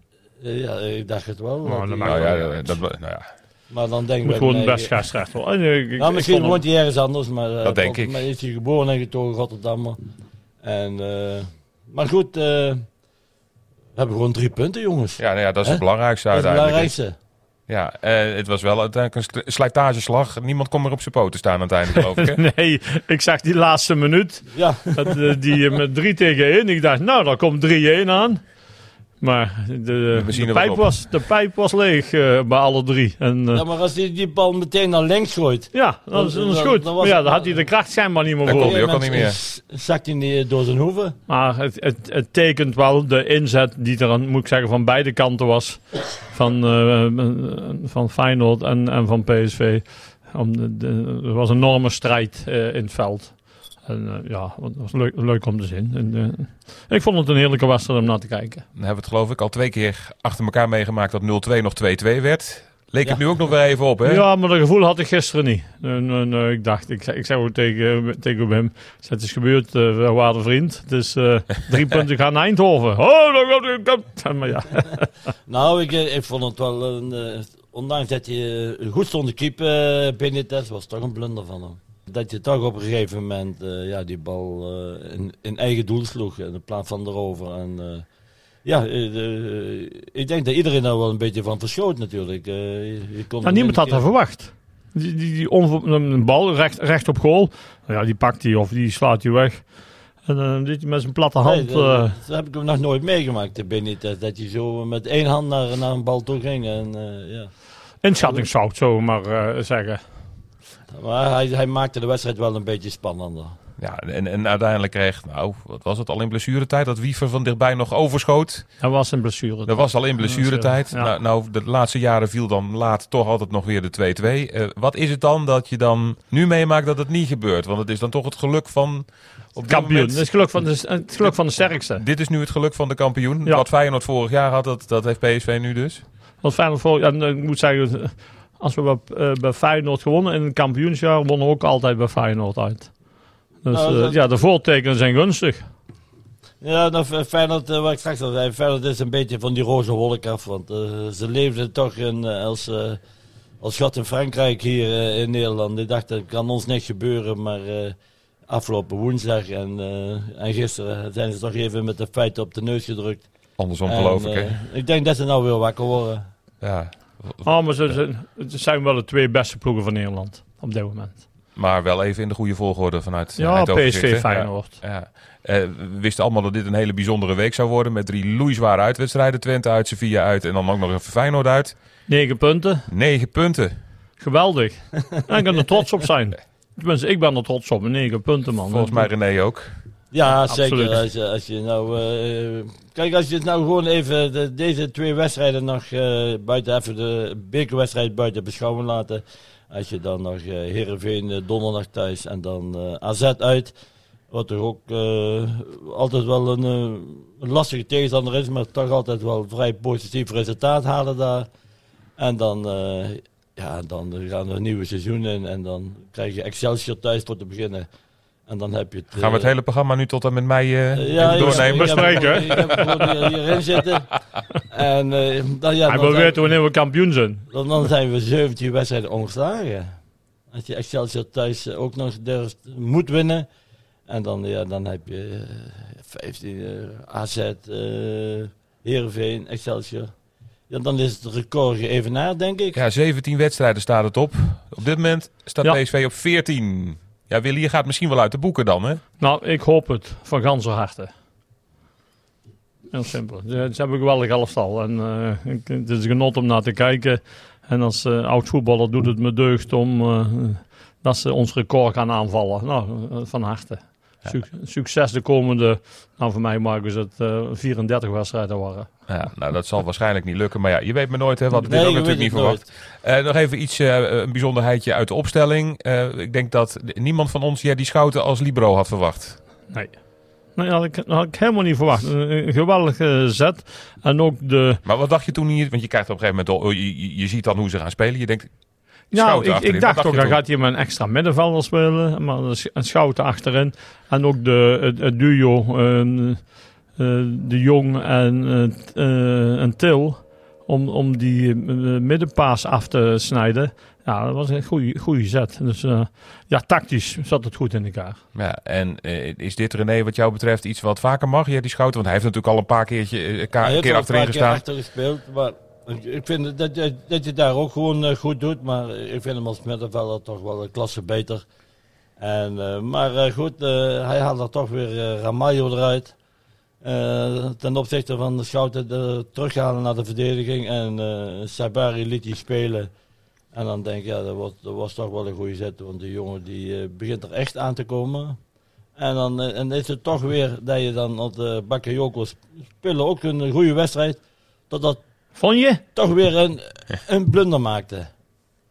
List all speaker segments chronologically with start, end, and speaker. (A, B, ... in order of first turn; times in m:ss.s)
0:00.4-0:02.8 A
0:01.6-0:02.5 B
0:02.0-0:03.2 C
0:03.7-0:05.0 A
0:04.2-0:06.6 B
0:06.0-0:10.0 A
0:07.6-0:08.2 C
0:10.6-0:12.8 A
0:14.0-0:17.2 A
0:15.2-0:16.9 C
0:17.7-0:22.4 C
0:21.9-0:28.4 B
0:24.5-0:25.2 A
0:29.2-0:33.6 B
0:30.1-0:31.0 C
0:33.5-0:37.6 A
0:35.7-0:38.8 B
0:38.4-0:39.4 C
0:38.4-0:41.2 A
0:41.3-0:53.3 B
0:53.8-0:58.6 B
0:58.7-1:04.2 C
1:04.0-1:15.1 B
1:15.5-1:28.0 A
1:28.6-1:34.0 A
1:33.4-1:39.6 B
1:40.2-1:42.2 B
1:41.4-1:47.5 A
1:48.0-1:50.0 B
1:48.2-1:48.4 A
1:50.9-1:53.5 A
1:53.8-1:58.7 C
1:58.8-2:01.1 B
1:59.7-2:10.2 C
2:09.7-2:12.0 B
2:11.9-2:16.0 C
2:16.4-2:22.9 B
2:23.6-2:25.7 B
2:23.7-2:24.2 A
2:26.6-2:33.0 A
2:33.6-2:37.9 A
2:38.5-2:43.3 A
2:43.6-2:44.6 C
2:43.8-2:46.2 A
2:46.6-2:47.5 C
2:47.4-2:51.2 B
2:51.6-3:01.7 C
2:53.4-2:54.8 B
3:02.1-3:02.9 B
3:02.9-3:03.7 C
3:04.2-3:09.1 B
3:08.7-3:09.7 C
3:10.1-3:23.7 A
3:10.3-3:11.0 B
3:24.3-3:31.5 A
3:32.2-3:37.9 A
3:38.5-3:39.5 A
3:39.2-3:43.1 C
3:40.9-3:44.1 A
3:41.2-3:42.7 B
3:44.7-3:46.4 A
3:45.8-3:47.4 B
3:47.5-3:49.9 A
3:50.5-3:53.5 A
3:54.1-4:00.1 A
4:00.7-4:02.8 A
4:02.7-4:09.0 C
4:09.2-4:11.1 B
4:12.9-4:29.1 B
4:29.1-4:39.4 C
4:31.6-4:32.7 A
4:39.7-4:40.0 B
4:40.6-4:44.8 B
4:44.8-4:48.5 C
4:49.1-4:56.4 B
4:49.1-4:50.4 C
4:57.0-5:08.2 B
5:08.3-5:14.6 C
5:13.6-5:21.4 A
5:22.2-5:26.1 A
5:26.8-5:32.9 A
5:33.5-5:38.4 A
5:39.0-5:45.0 A
5:45.4-5:45.8 B
5:45.9-5:48.1 A